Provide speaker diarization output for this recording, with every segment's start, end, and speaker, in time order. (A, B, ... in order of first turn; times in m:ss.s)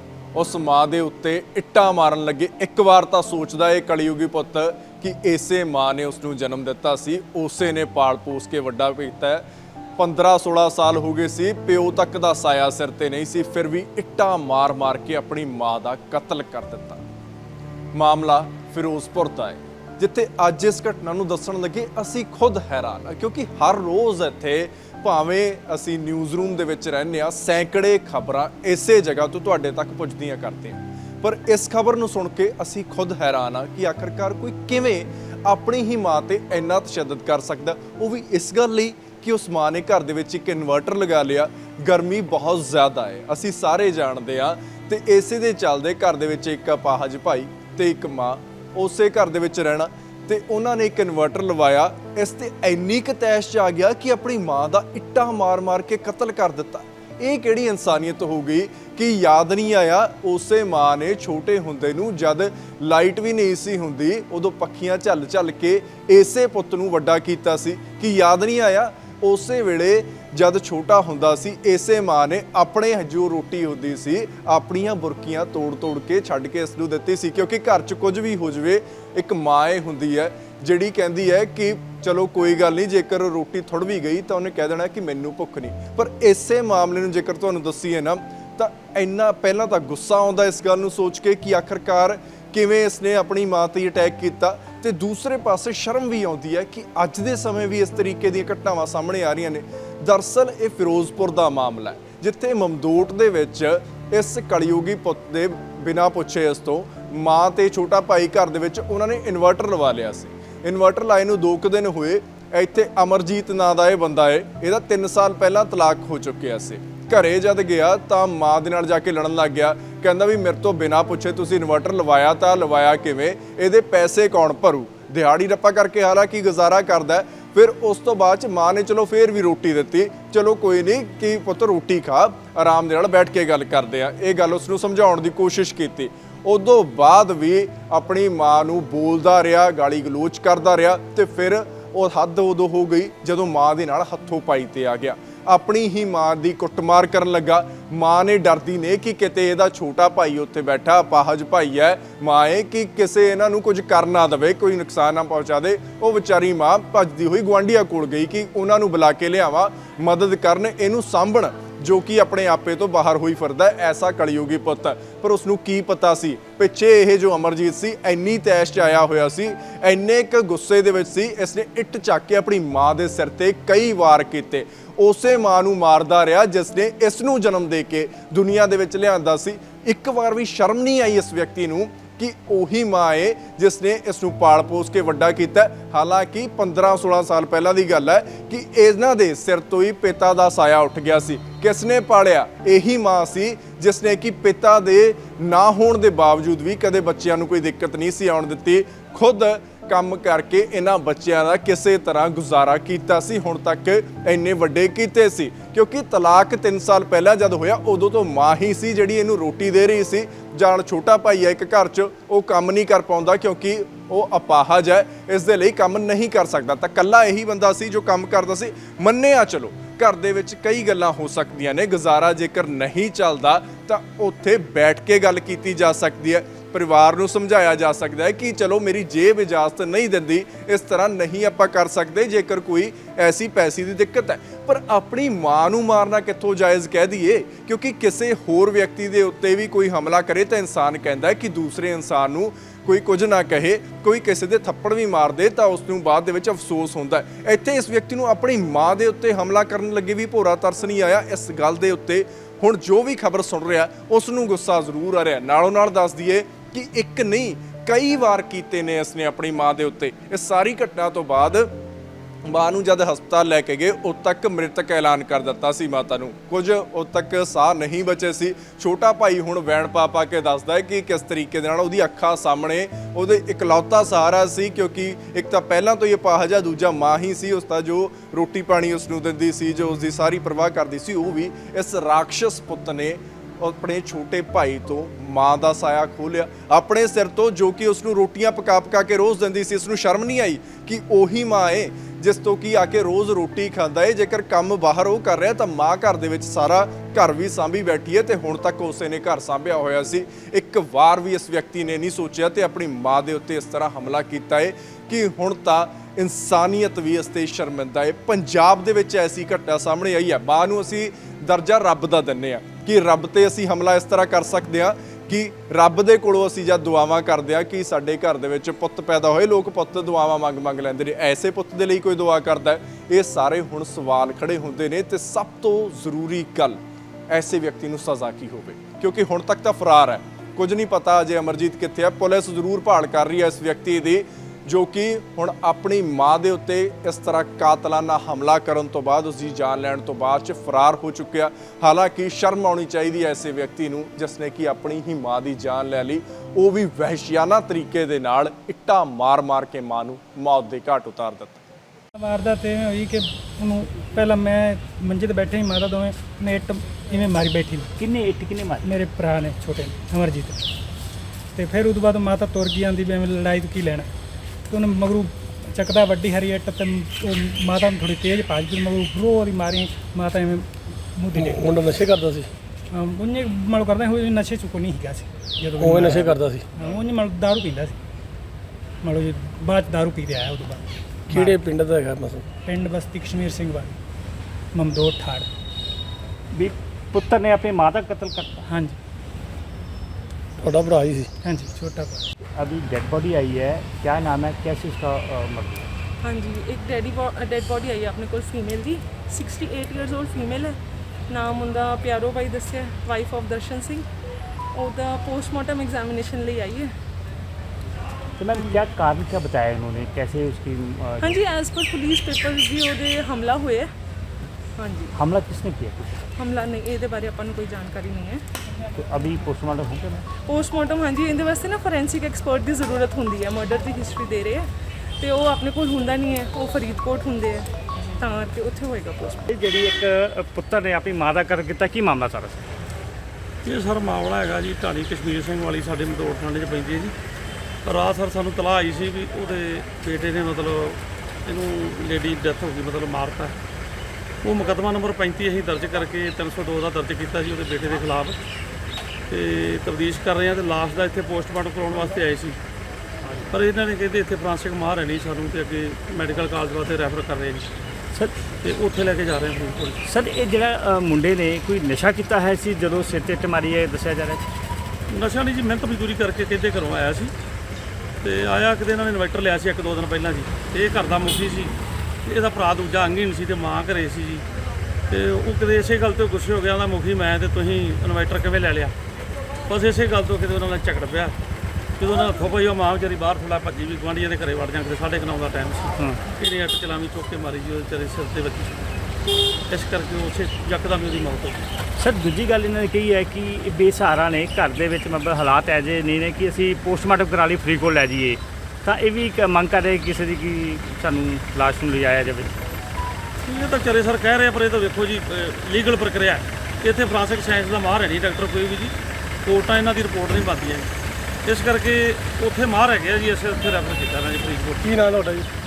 0:00.3-0:09.4 A
0:10.0-0:17.0 A
0:17.9-4:21.7 A
4:22.4-5:26.8 A
5:27.3-5:51.6 A
5:52.2-5:57.9 B
5:58.0-5:58.8 C
5:58.8-6:00.6 B
6:01.5-6:04.1 B
6:04.7-6:11.8 B
6:11.4-6:12.5 D
6:12.9-6:18.0 B
6:15.8-6:16.6 D
6:19.0-6:21.6 B
6:21.3-6:22.4 D
6:22.6-6:24.0 B
6:24.7-6:25.5 B
6:26.5-6:28.6 C
6:28.7-6:29.0 B
6:30.6-6:31.3 D
6:31.4-6:32.3 B
6:32.6-6:35.9 C
6:36.2-6:40.8 E
6:41.3-6:44.0 E
6:44.7-6:46.9 E
6:48.4-6:51.4 C
6:51.2-6:53.9 E
6:54.8-6:55.1 E
6:55.1-6:56.2 C
6:56.4-6:58.4 E
6:59.0-7:00.2 C
7:00.4-7:04.7 E
7:05.2-7:09.4 E
7:09.5-7:12.6 C
7:13.6-7:17.1 F
7:17.8-7:23.6 F
7:24.4-7:28.4 F
7:29.3-7:32.6 F
7:33.5-7:37.7 F
7:38.6-7:40.0 F
7:40.0-7:44.4 C
7:45.1-7:47.3 F
7:48.2-7:54.4 F
7:55.1-7:58.9 F
7:59.7-8:01.4 F
8:02.0-8:08.9 F
8:09.7-8:11.7 F
8:12.0-8:22.5 C
8:23.4-8:30.9 F
8:31.4-8:34.9 F
8:34.8-8:35.5 D